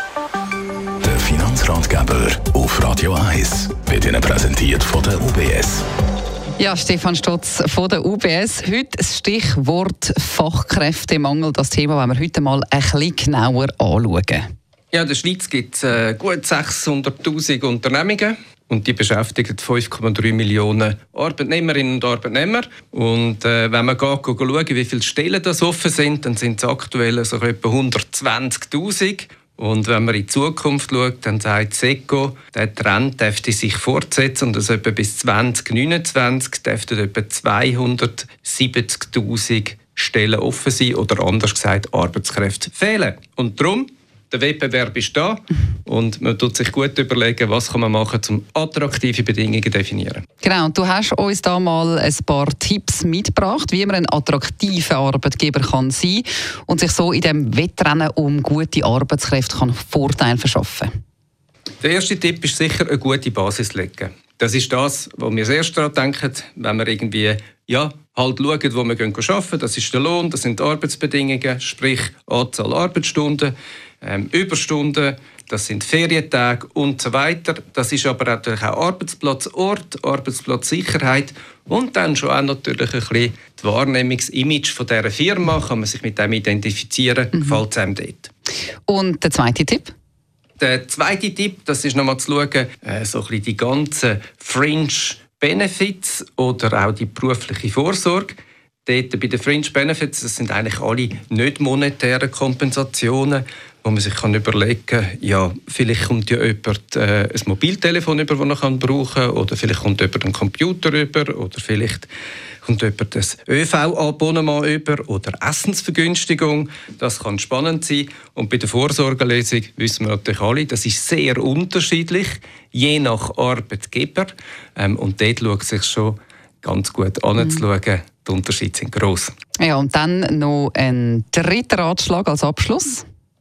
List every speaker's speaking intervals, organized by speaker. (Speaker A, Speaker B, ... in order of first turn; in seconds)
Speaker A: 1.0-5.8
Speaker B: 6.6-14.4, 50.4-60.9, 88.9-89.9, 129.6-133.0
Speaker C: 14.9-50.2, 61.8-88.3, 90.6-112.1, 112.6-129.3